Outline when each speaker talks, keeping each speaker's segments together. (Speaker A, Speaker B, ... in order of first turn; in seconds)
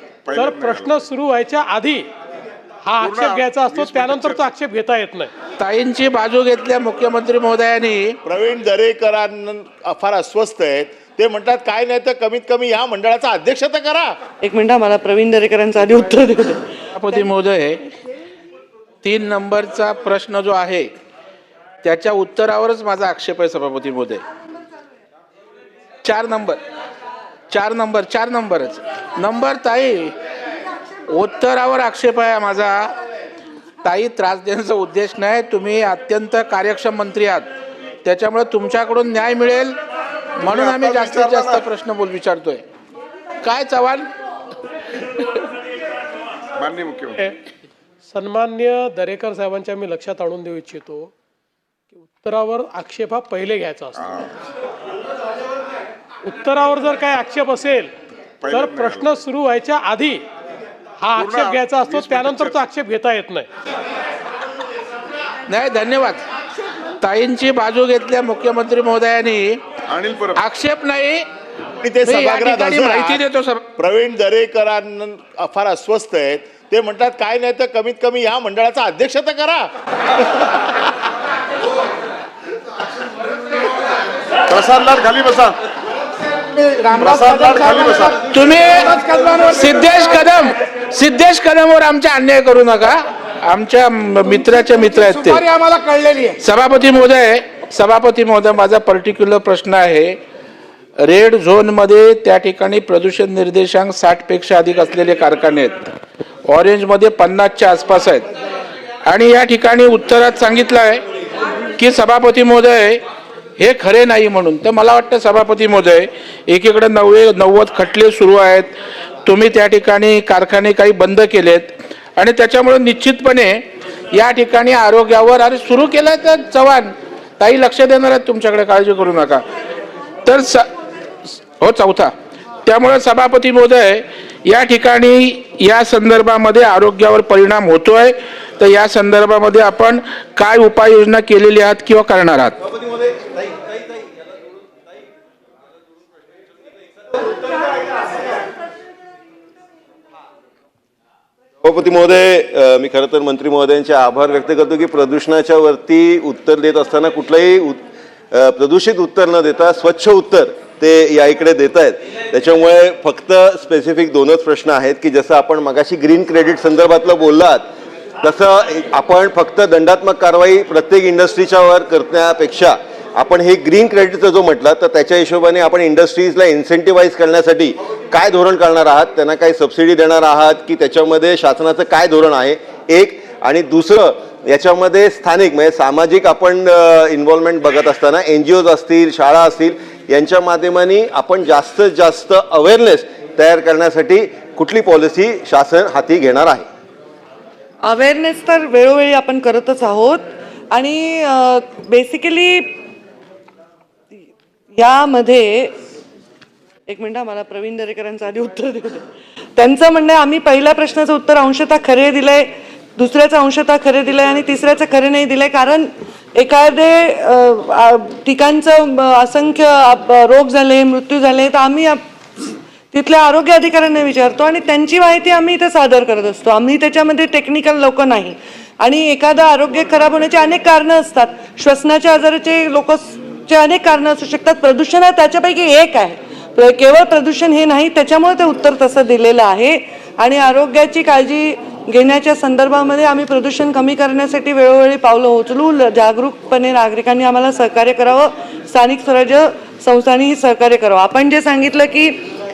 Speaker A: 0.3-1.1, 3.0-4.5, 40.5-41.6, 46.6-47.2, 54.0-54.3, 58.4-59.2, 61.2-62.6, 69.9-70.4, 84.5-85.6, 87.0-88.2
Speaker B: 0.4-2.1, 2.9-5.3, 48.1-51.1, 52.0-54.0, 56.2-57.9, 58.5-60.2, 61.0-63.5
Speaker C: 5.6-8.2, 16.9-17.8, 19.0-20.9, 21.8-24.2, 26.0-26.6, 27.5-30.1, 31.1-32.9, 33.8-37.5, 38.0-39.8, 40.4-42.6, 43.4-44.1, 65.5-66.2, 67.0-69.6, 70.4-71.2, 72.0-73.6, 86.5-95.5, 96.4-100.2, 101.0-105.9, 106.5-108.3, 109.1-111.0, 111.8-113.0, 113.6-118.7, 119.2-129.4, 130.2-130.7, 131.6-132.1, 132.7-142.6
Speaker D: 8.2-14.1, 71.8-73.2, 73.8-79.7
Speaker E: 14.4-16.6, 197.9-200.2, 200.7-202.7, 204.8-205.7, 206.9-209.0, 209.6-212.5, 213.0-252.2
Speaker F: 87.0-88.0, 89.0-89.6, 95.0-96.3
Speaker G: 151.6-157.8, 158.3-167.7, 168.2-196.7